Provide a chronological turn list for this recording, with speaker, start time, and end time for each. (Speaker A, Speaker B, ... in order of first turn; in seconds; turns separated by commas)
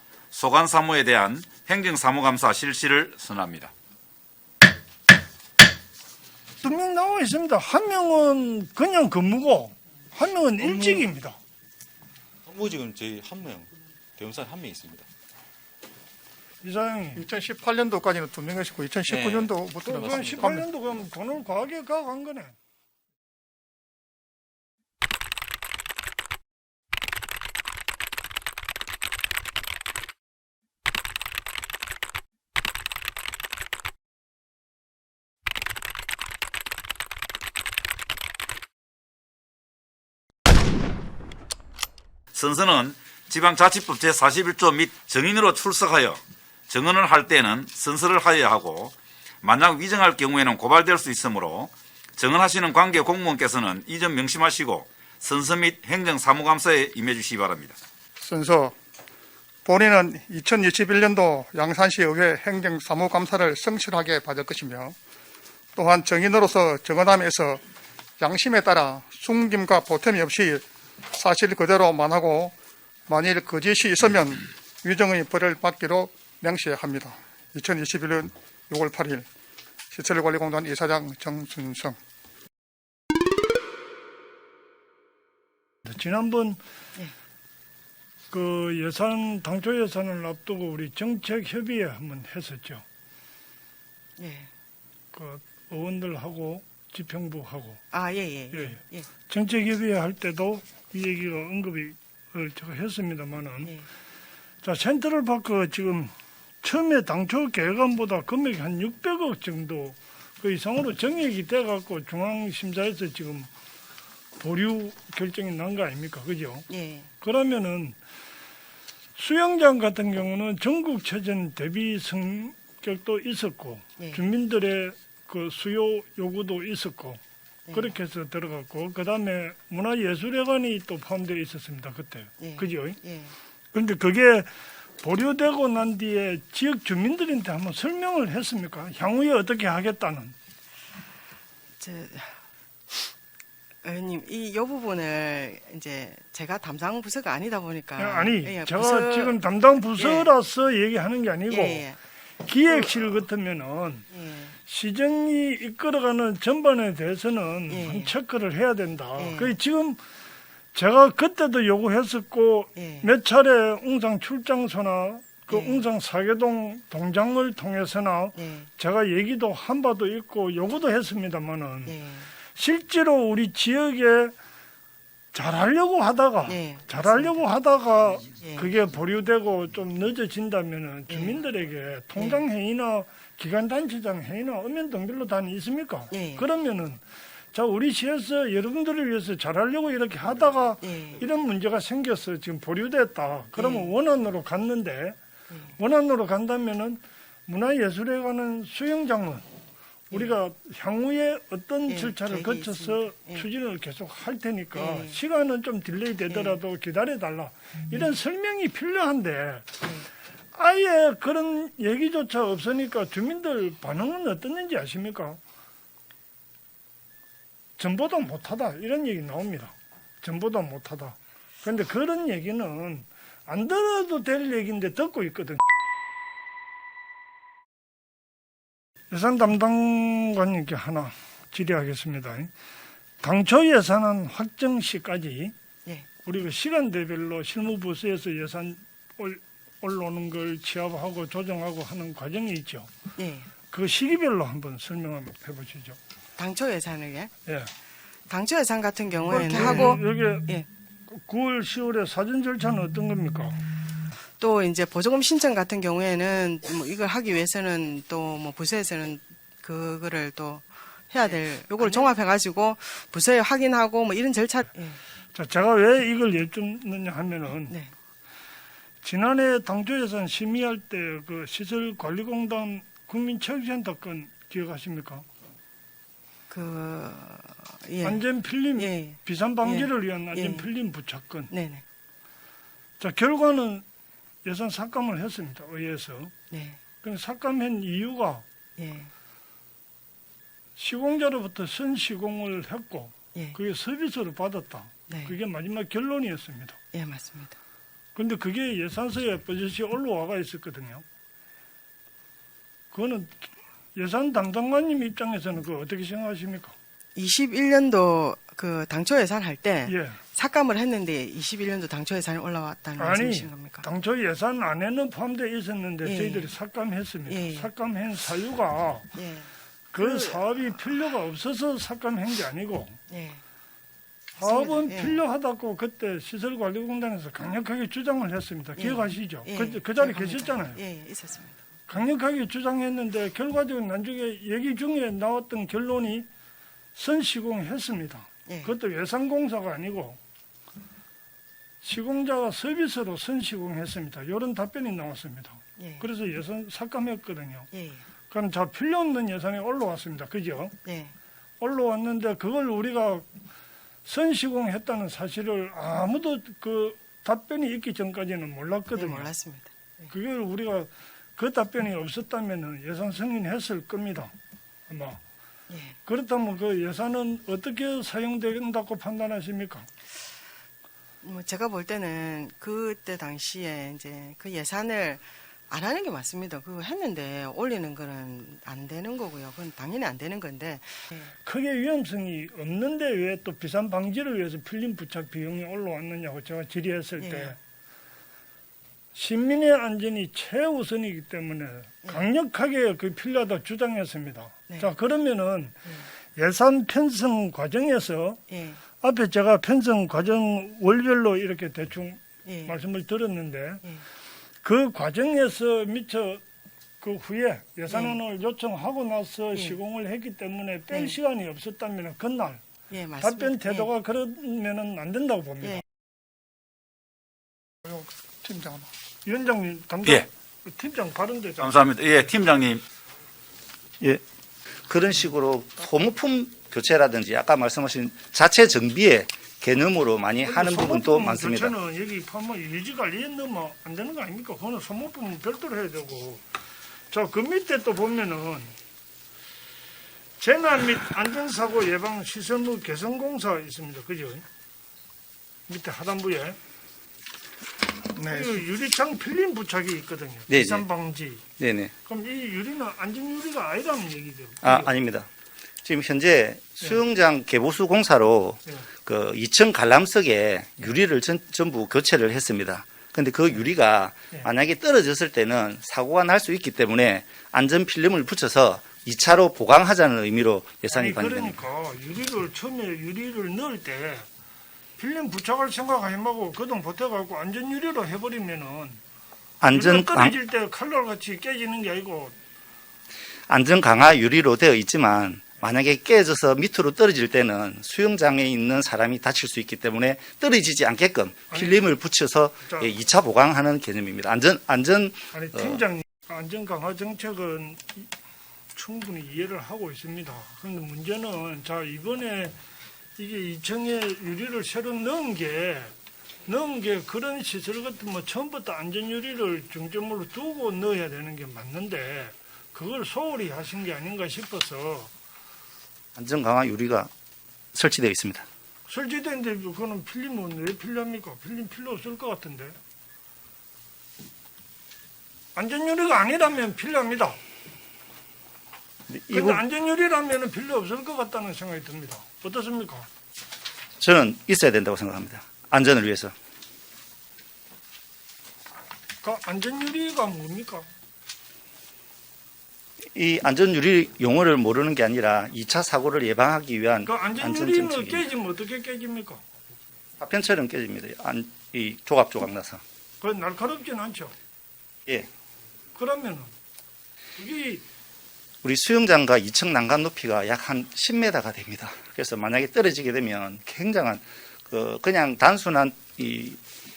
Speaker A: 0.3-3.7, Speaker B: 6.6-11.4, Speaker C: 12.5-13.6, Speaker C: 14.3-15.0, Speaker B: 16.6-17.2, Speaker D: 17.2-20.6, Speaker C: 19.1-20.4, Speaker B: 19.9-22.5, Speaker A: 42.3-57.8, Speaker D: 58.2-58.7, Speaker D: 59.6-64.9, Speaker D: 65.8-67.6, Speaker D: 68.2-70.6, Speaker D: 71.1-72.5, Speaker D: 73.1-79.2, Speaker D: 79.9-82.0, Speaker B: 85.8-86.6, Speaker B: 88.3-92.8, Speaker E: 94.2-94.5, Speaker B: 95.1-97.8, Speaker E: 97.9-99.1, Speaker B: 98.5-103.7, Speaker B: 104.6-113.5, Speaker B: 114.4-116.7, Speaker E: 116.7-117.1, Speaker B: 117.2-118.0, Speaker B: 119.2-127.2, Speaker E: 127.7-127.9, Speaker B: 127.7-133.0, Speaker E: 132.4-133.3, Speaker B: 133.7-140.3, Speaker E: 141.8-143.1, Speaker E: 143.8-149.4, Speaker B: 148.0-151.8, Speaker E: 149.9-150.3, Speaker E: 151.5-152.0, Speaker B: 152.4-154.1, Speaker E: 152.6-153.2, Speaker E: 154.1-154.6, Speaker B: 154.6-160.0, Speaker E: 157.7-158.1, Speaker E: 159.2-159.6, Speaker B: 160.7-171.9, Speaker E: 162.8-163.1, Speaker E: 165.5-165.8, Speaker E: 168.3-168.7, Speaker E: 171.8-172.3, Speaker B: 172.5-174.3, Speaker B: 175.3-187.0, Speaker E: 176.5-177.3, Speaker E: 178.4-178.7, Speaker E: 181.1-181.4, Speaker E: 182.2-182.4, Speaker E: 186.1-186.4, Speaker B: 187.5-195.2, Speaker E: 190.8-191.2, Speaker E: 193.6-193.9, Speaker B: 195.8-199.4, Speaker B: 200.1-209.7, Speaker E: 201.9-203.4, Speaker E: 204.7-205.2, Speaker E: 206.3-206.6, Speaker B: 210.5-215.4, Speaker B: 217.8-225.7, Speaker B: 229.1-232.5, Speaker B: 233.2-235.5, Speaker B: 236.2-242.9, Speaker E: 243.2-243.5, Speaker B: 243.7-246.0, Speaker E: 246.4-247.3, Speaker B: 247.4-247.7, Speaker E: 248.3-250.7, Speaker B: 249.3-250.5, Speaker B: 251.1-253.6, Speaker E: 254.4-265.0, Speaker B: 261.3-262.1, Speaker B: 265.3-267.7, Speaker B: 269.0-275.2, Speaker E: 276.5-280.7, Speaker B: 278.0-281.5, Speaker E: 281.5-281.8, Speaker B: 283.0-283.8, Speaker B: 284.4-286.3, Speaker E: 286.5-286.8, Speaker B: 287.0-288.4, Speaker E: 288.8-289.1, Speaker B: 290.8-296.8, Speaker E: 295.1-295.3, Speaker E: 296.9-297.6, Speaker B: 298.1-301.0, Speaker B: 302.9-306.7, Speaker E: 307.1-313.9, Speaker B: 309.9-310.2, Speaker B: 313.0-319.1, Speaker E: 316.0-316.5, Speaker E: 317.2-317.7, Speaker E: 319.1-320.4, Speaker B: 319.9-323.0, Speaker E: 323.1-323.4, Speaker B: 324.4-330.8, Speaker E: 324.4-325.2, Speaker E: 328.8-331.6, Speaker B: 331.9-336.3, Speaker B: 336.9-340.2, Speaker E: 338.5-338.7, Speaker B: 341.8-347.7, Speaker E: 345.8-346.1, Speaker E: 347.7-348.0, Speaker B: 348.3-350.7, Speaker E: 350.8-351.1, Speaker B: 351.6-353.2, Speaker B: 354.0-359.3, Speaker E: 358.9-360.1, Speaker B: 360.1-364.3, Speaker B: 364.9-365.2, Speaker E: 365.7-366.0, Speaker B: 366.0-369.9, Speaker E: 371.2-381.3, Speaker B: 381.4-387.6, Speaker E: 387.2-387.5, Speaker B: 389.1-398.4, Speaker E: 398.5-398.8, Speaker B: 399.0-403.8, Speaker E: 402.4-402.7, Speaker B: 404.6-406.4, Speaker B: 407.0-412.6, Speaker E: 407.9-408.1, Speaker E: 412.9-413.9, Speaker B: 413.2-415.8, Speaker D: 417.9-418.9, Speaker B: 419.2-421.8, Speaker A: 421.6-422.8, Speaker F: 424.9-431.8, Speaker B: 430.4-436.4, Speaker B: 437.1-438.7, Speaker B: 440.4-444.4, Speaker B: 445.7-446.6, Speaker B: 448.2-451.4, Speaker F: 450.5-450.9, Speaker F: 451.6-451.9, Speaker B: 452.0-454.9, Speaker F: 454.6-455.3, Speaker F: 455.8-471.6, Speaker B: 470.9-474.3, Speaker B: 475.0-479.0, Speaker F: 479.6-480.4, Speaker B: 479.7-482.4, Speaker F: 483.5-495.8, Speaker B: 491.5-491.9, Speaker B: 495.3-498.1, Speaker B: 498.7-502.6, Speaker B: 503.2-505.9, Speaker B: 506.4-515.1, Speaker F: 516.1-517.1, Speaker F: 517.7-518.5, Speaker B: 518.9-522.8, Speaker B: 525.5-527.4, Speaker F: 529.1-529.6, Speaker B: 529.3-533.1, Speaker F: 534.0-536.3, Speaker B: 539.2-540.9, Speaker F: 543.1-548.3, Speaker B: 547.0-549.4, Speaker F: 550.2-552.8, Speaker B: 553.2-554.3, Speaker B: 555.9-556.5, Speaker B: 557.4-557.9, Speaker F: 558.6-566.6